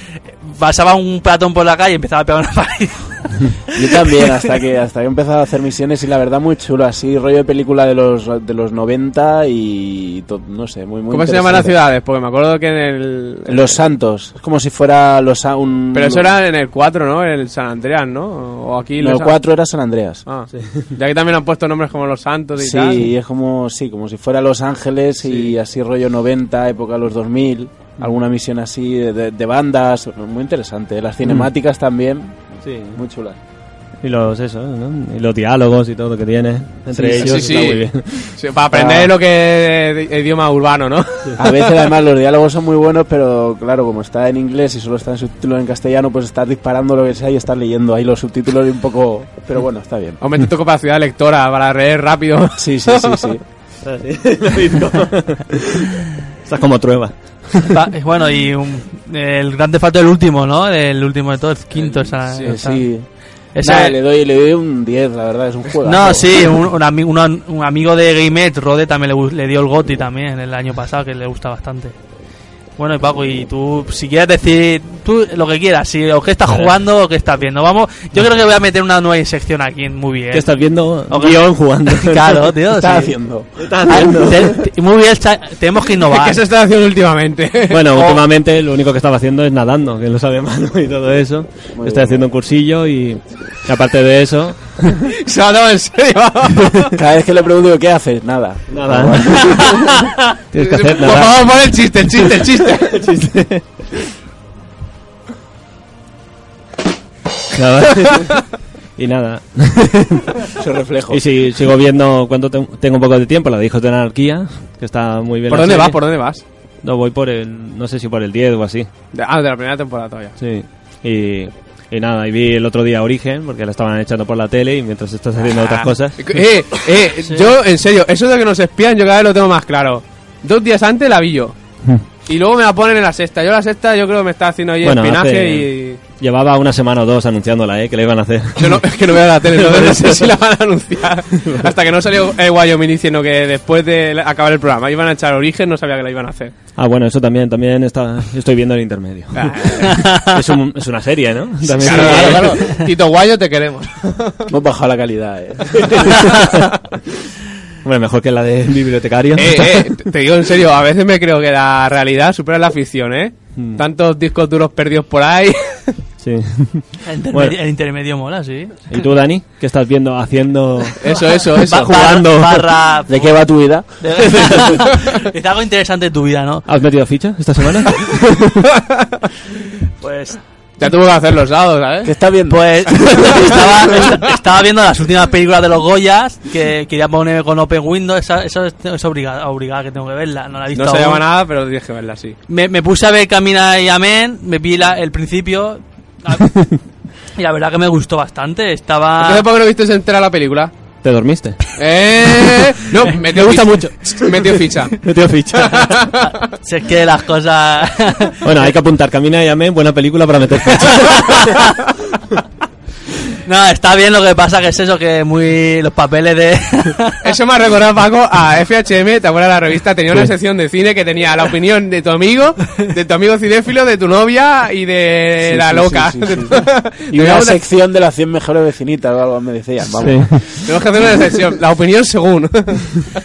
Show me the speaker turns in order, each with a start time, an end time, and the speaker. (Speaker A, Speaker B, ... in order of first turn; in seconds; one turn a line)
Speaker A: 0.4-4.5
Speaker B: 3.8-11.8
Speaker C: 11.1-13.8
Speaker B: 13.5-16.3
Speaker C: 15.9-19.4
Speaker B: 19.0-20.2
Speaker C: 20.3-23.0
Speaker B: 22.6-33.4
Speaker C: 25.2-25.5
Speaker D: 31.2-31.5
Speaker D: 32.6-33.0
Speaker D: 34.0-38.4
Speaker B: 36.9-37.8
Speaker C: 37.1-41.4
Speaker B: 38.7-39.1
Speaker B: 41.4-50.2
Speaker C: 50.2-53.4
Speaker B: 52.6-53.4
Speaker D: 53.8-57.8
Speaker A: 57.7-62.8
Speaker C: 61.8-62.6
Speaker B: 62.4-63.1
Speaker A: 63.5-64.0
Speaker B: 63.6-66.5
Speaker A: 65.9-72.0
Speaker A: 72.8-80.5
Speaker D: 80.3-82.5
Speaker A: 81.1-83.2
Speaker B: 82.7-84.1
Speaker D: 83.6-84.6
Speaker A: 83.9-86.4
Speaker C: 86.0-88.2
Speaker D: 87.7-95.0
Speaker B: 91.8-92.3
Speaker C: 94.9-97.0
Speaker B: 97.0-99.9
Speaker D: 98.7-99.6
Speaker D: 100.5-101.5
Speaker C: 100.5-103.0
Speaker D: 102.8-103.8
Speaker D: 107.5-110.4
Speaker B: 110.6-111.2
Speaker D: 111.1-116.0
Speaker C: 115.5-116.4
Speaker D: 116.8-118.9
Speaker C: 119.1-120.4
Speaker D: 120.4-126.4
Speaker C: 125.4-131.6
Speaker C: 132.3-136.0
Speaker D: 134.8-138.8
Speaker C: 138.6-146.5
Speaker D: 139.6-140.2
Speaker D: 141.4-141.7
Speaker D: 146.8-152.7
Speaker C: 149.3-150.1
Speaker A: 149.9-150.3
Speaker C: 151.7-154.5
Speaker B: 151.9-152.2
Speaker B: 154.5-156.5
Speaker D: 157.8-159.9
Speaker C: 159.4-166.0
Speaker D: 163.6-163.8
Speaker D: 166.2-167.6
Speaker A: 167.0-169.1
Speaker D: 168.9-171.0
Speaker C: 171.0-171.9
Speaker D: 171.5-172.7
Speaker A: 171.6-173.4
Speaker B: 173.1-174.4
Speaker A: 174.0-176.7
Speaker D: 176.7-178.1
Speaker A: 180.0-180.4
Speaker C: 180.8-182.1
Speaker B: 182.0-183.3
Speaker A: 182.5-191.2
Speaker C: 183.2-184.2
Speaker C: 190.8-192.4
Speaker A: 192.5-196.6
Speaker A: 197.3-199.4
Speaker C: 199.2-200.7
Speaker D: 201.0-201.6
Speaker C: 201.8-205.0
Speaker D: 203.1-206.1
Speaker C: 205.6-206.3
Speaker A: 206.2-208.4
Speaker D: 208.4-211.4
Speaker A: 211.2-211.7
Speaker A: 213.4-217.2
Speaker C: 217.2-227.6
Speaker B: 225.4-230.4
Speaker D: 230.0-230.5
Speaker C: 230.6-233.0